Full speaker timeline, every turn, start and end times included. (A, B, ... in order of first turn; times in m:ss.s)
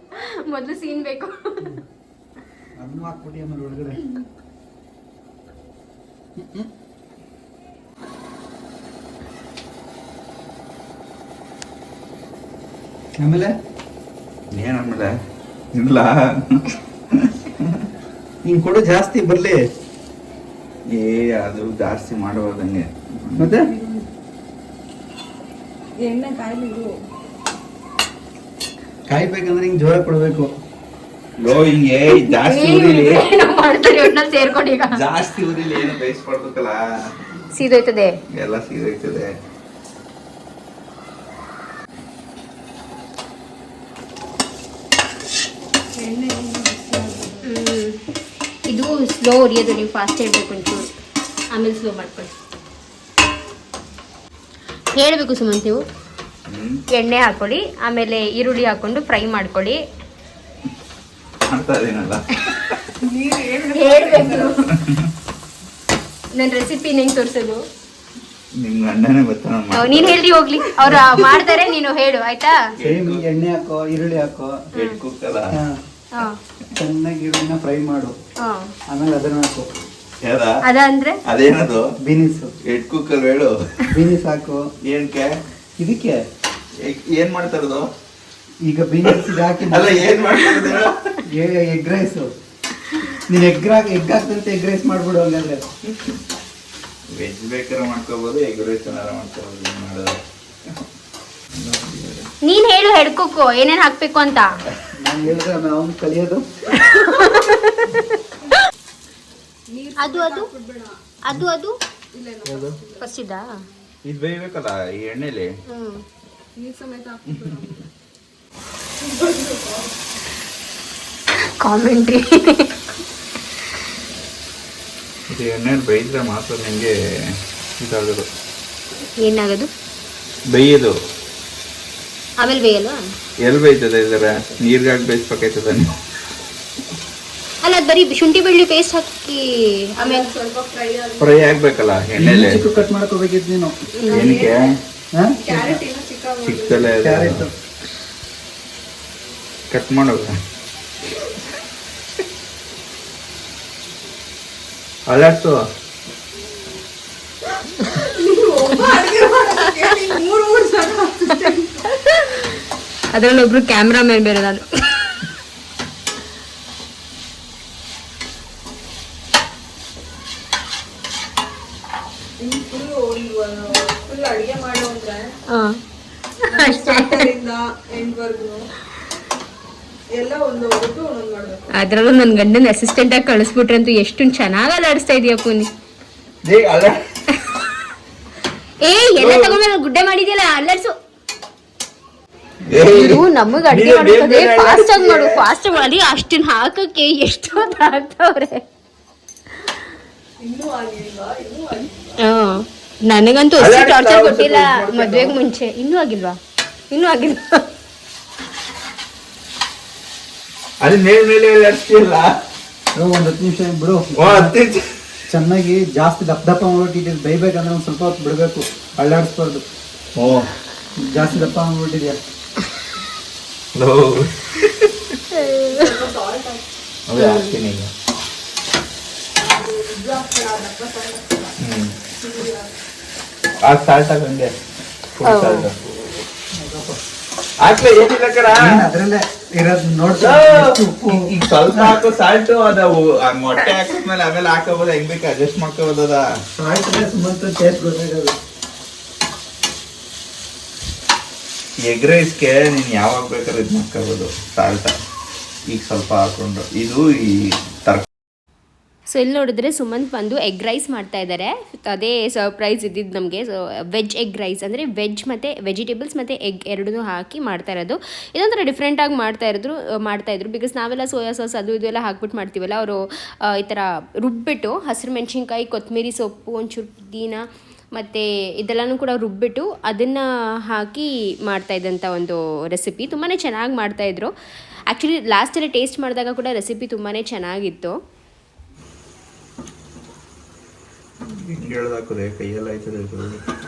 0:00.2-0:01.7 A
0:02.8-0:04.1 B
0:06.4-0:06.7 B
0:13.2-0:13.5 B
0:14.5-0:15.2 C
0:15.7-0:17.9 C
0:18.5-0:19.6 B
0:20.9-0:23.5 C
0:23.4-0:23.7 B
0:23.5-0:24.1 D
0:26.0-0:26.9 D
0:29.1-0:30.5 B
0:31.4-0:33.2 C
0:32.1-0:35.0 A
0:34.9-0:36.8 C
0:37.6-0:38.2 A
0:38.3-0:39.4 C
0:46.0-0:47.5 D
0:47.4-0:48.0 A
0:48.7-0:50.9 A
0:51.5-0:52.3 A
0:55.0-0:55.8 A
0:56.5-0:56.8 C
0:56.9-0:59.8 A
1:01.5-1:02.8 C
1:03.0-1:04.6 D
1:03.8-1:04.6 A
1:04.8-1:05.1 C
1:06.4-1:07.6 A
1:08.6-1:10.2 C
1:09.7-1:12.6 A
1:12.8-1:13.2 C
1:12.8-1:14.7 B
1:14.8-1:15.6 C
1:15.5-1:15.8 B
1:16.8-1:18.2 B
1:18.4-1:18.7 A
1:18.9-1:19.7 B
1:20.2-1:20.6 C
1:20.6-1:21.2 A
1:21.3-1:21.9 C
1:22.0-1:22.5 B
1:22.6-1:23.6 C
1:23.9-1:24.7 B
1:24.8-1:25.3 C
1:25.8-1:26.2 B
1:26.8-1:27.9 C
1:28.6-1:30.6 B
1:29.0-1:31.2 C
1:31.3-1:32.3 B
1:33.3-1:35.7 B
1:37.1-1:40.8 C
1:41.6-1:42.3 C
1:42.4-1:44.5 A
1:45.0-1:46.4 B
1:46.7-1:48.6 A
1:49.7-1:51.0 D
1:50.0-1:50.5 A
1:51.2-1:51.8 A
1:52.2-1:53.1 D
1:53.0-1:53.6 A
1:54.0-1:55.5 C
1:55.7-1:56.0 A
1:56.6-1:57.9 D
1:59.0-1:59.9 D
2:01.6-2:02.8 A
2:05.3-2:08.3 C
2:09.2-2:09.7 A
2:10.5-2:10.9 C
2:12.4-2:13.0 A
2:13.4-2:15.9 C
2:17.6-2:20.3 A
2:20.0-2:21.9 D
2:21.2-2:22.8 C
2:22.2-2:23.7 B
2:24.0-2:24.4 A
2:24.1-2:24.8 D
2:24.1-2:24.8 C
2:25.1-2:25.8 B
2:25.4-2:27.0 D
2:26.4-2:27.5 C
2:27.0-2:27.5 B
2:29.7-2:30.4 C
2:35.1-2:35.6 C
2:37.8-2:41.8 D
2:41.9-2:42.4 A
2:43.1-2:45.2 A
2:52.4-2:55.3 D
2:55.5-2:55.8 A
2:56.5-2:57.3 A
2:56.5-2:58.6 D
3:00.1-3:01.6 D
3:01.7-3:05.7 A
3:06.5-3:07.0 C
3:08.8-3:10.9 A
3:09.2-3:09.6 C
3:12.7-3:15.4 C
3:12.9-3:18.6 A
3:20.4-3:22.2 D
3:22.2-3:26.4 A
3:23.6-3:25.4 C
3:26.9-3:27.7 A
3:30.8-3:32.4 C
3:33.0-3:34.6 B
3:34.2-3:34.9 C
3:35.3-3:39.6 B
3:40.2-3:40.5 C
3:41.0-3:42.2 B
3:43.8-3:45.2 C
3:45.3-3:45.9 A
3:45.4-3:46.6 D
3:47.1-3:47.9 C
3:47.2-3:47.6 A
3:49.4-3:51.5 D
3:51.6-3:52.0 C
3:52.2-3:52.7 D
3:53.6-3:54.6 C
3:55.2-3:55.8 C
3:55.2-3:55.7 A
3:56.5-3:57.0 B
3:57.6-3:58.9 C
3:58.5-4:02.0 B
4:00.2-4:06.3 C
4:06.6-4:08.4 B
4:11.8-4:14.9 C
4:15.7-4:18.1 C
4:19.1-4:37.4 A
4:38.0-4:44.3 A
4:44.9-4:48.0 A
4:51.2-4:53.4 C